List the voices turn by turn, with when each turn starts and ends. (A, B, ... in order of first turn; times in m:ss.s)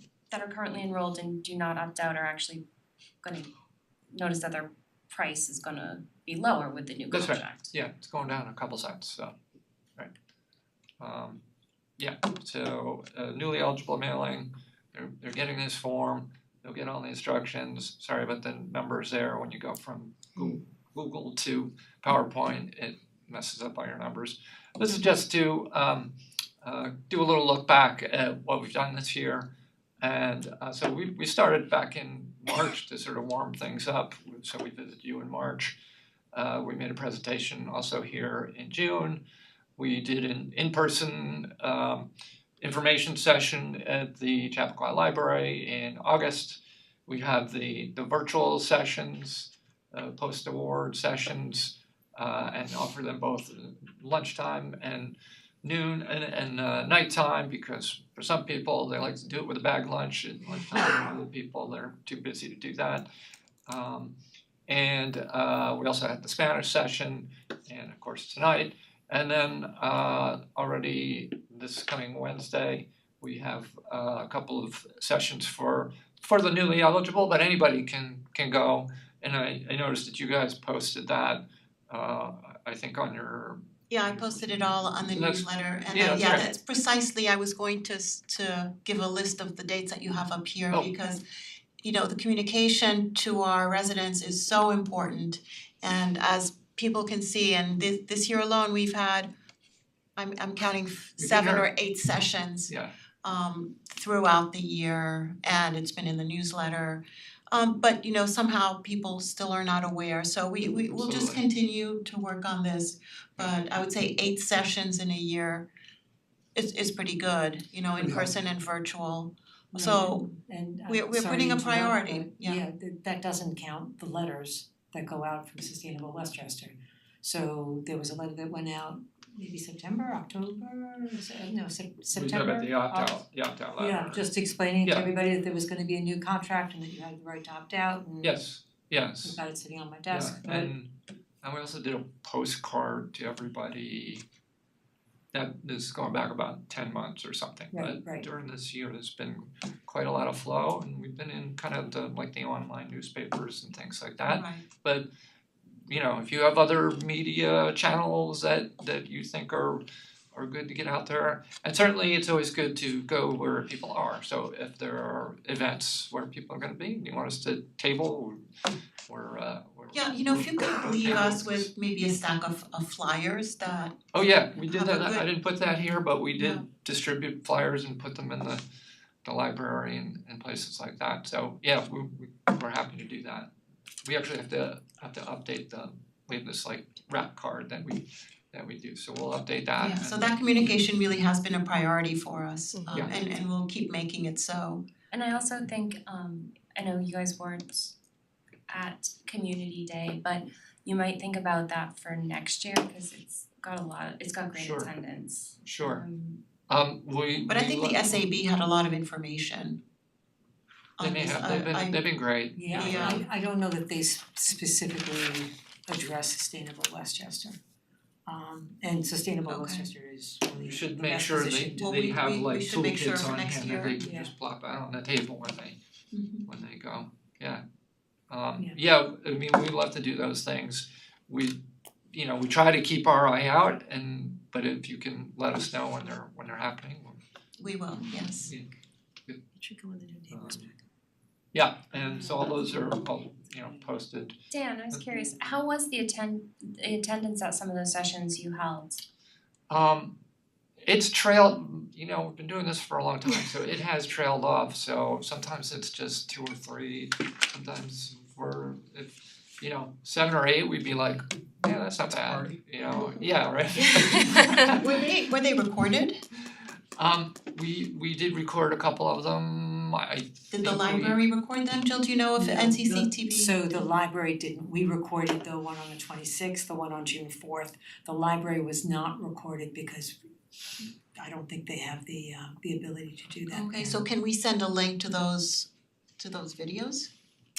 0:00.3-0:02.6 A
0:03.2-0:03.5 A
0:04.1-0:07.7 A
0:07.1-0:09.3 B
0:11.0-0:11.4 B
0:12.0-0:29.5 B
0:30.0-0:35.8 B
0:36.3-0:39.2 B
0:39.8-0:42.1 B
0:42.6-1:03.1 B
1:03.7-1:04.2 B
1:04.7-1:26.5 B
1:23.9-1:31.2 C
1:31.8-1:39.3 C
1:40.2-1:42.7 C
1:41.2-1:41.7 B
1:43.2-1:55.7 C
1:50.9-1:51.4 B
1:56.6-2:00.2 C
1:59.7-2:13.2 D
2:00.9-2:02.6 C
2:12.1-2:14.3 B
2:13.8-2:18.4 D
2:18.2-2:19.4 B
2:19.2-2:20.7 D
2:20.1-2:20.9 B
2:21.4-2:24.2 B
2:25.3-2:35.1 B
2:27.7-2:28.3 D
2:34.3-2:34.6 C
2:35.9-2:48.4 B
2:49.1-2:51.7 B
2:49.9-2:54.0 C
2:54.1-2:58.6 B
2:54.6-2:55.3 C
2:56.4-2:56.6 C
2:59.2-3:03.5 B
3:04.0-3:10.3 B
3:09.8-3:14.8 C
3:15.1-3:17.9 A
3:18.7-3:26.4 A
3:24.5-3:24.9 B
3:25.6-3:26.0 B
3:26.7-3:28.3 B
3:27.5-3:29.8 C
3:31.0-3:32.0 C
3:31.0-3:33.2 B
3:32.5-3:37.6 D
3:32.7-3:33.2 C
3:38.3-3:42.0 D
3:39.5-3:39.9 C
3:40.6-3:45.8 B
3:41.8-3:44.0 C
3:44.0-3:44.3 D
3:46.1-3:46.4 C
3:46.4-3:47.6 B
3:48.3-3:51.6 B
3:52.1-3:57.2 B
3:57.6-3:58.5 C
3:58.4-3:58.7 B
3:59.6-4:00.8 D
4:00.3-4:00.6 B
4:01.5-4:04.4 B
4:01.9-4:03.0 D
4:03.5-4:03.9 D
4:04.5-4:09.0 A
4:04.9-4:05.4 B
4:09.7-4:10.2 B
4:10.8-4:24.8 B
4:24.3-4:24.6 A
4:24.7-4:26.2 C
4:27.0-4:31.2 B
4:30.5-4:33.5 C
4:32.4-4:40.2 D
4:40.8-4:43.8 D
4:43.5-4:45.7 C
4:46.2-4:47.1 C